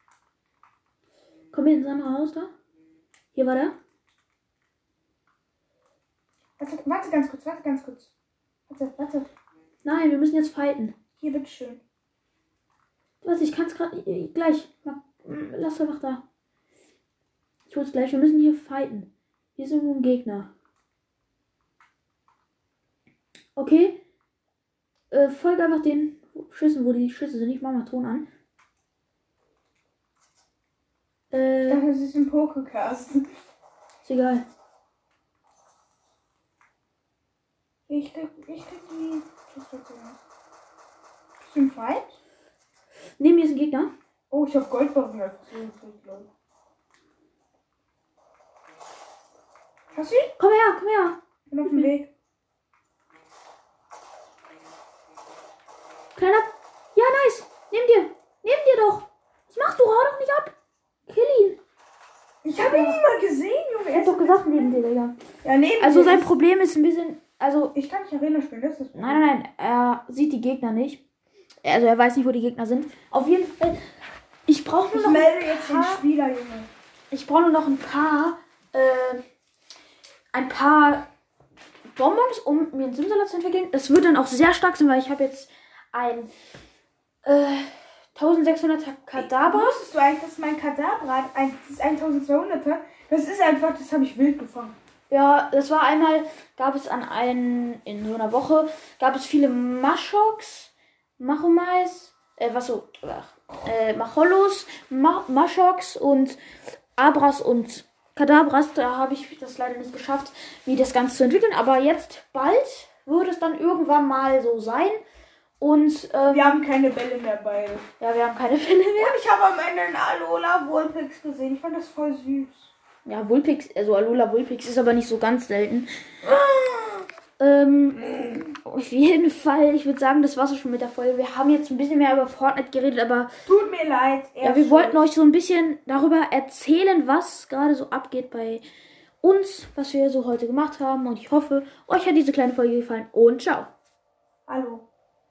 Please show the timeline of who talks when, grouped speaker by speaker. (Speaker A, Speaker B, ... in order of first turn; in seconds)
Speaker A: 1.5-2.5, 3.3-3.8, 9.8-10.9, 13.2-16.2, 17.7-20.5, 23.6-24.0, 25.1-28.3, 31.3-31.8, 34.0-34.4, 43.2-43.9, 50.4-51.9, 56.2-60.5, 61.1-61.6, 62.6-63.0, 63.9-65.2, 65.8-67.7, 69.0-71.0, 71.6-73.8, 74.5-76.0, 77.1-79.2, 80.3-81.1, 82.0-86.3, 87.2-89.8, 95.1-106.4, 107.0-115.0, 115.6-116.5, 118.0-119.2, 123.1-125.9, 127.4-133.3, 134.4-138.6, 139.2-143.7
Speaker B: 6.6-8.1, 8.7-9.3, 11.2-11.8, 31.7-33.2, 37.9-40.2, 41.4-42.2, 44.3-46.3, 49.9-50.3, 51.5-52.1, 62.4-64.8, 65.4-66.3, 67.8-69.3, 74.9-76.7, 89.1-94.8, 116.3-117.9, 119.0-122.7, 126.3-127.0, 133.5-135.0, 144.5-144.9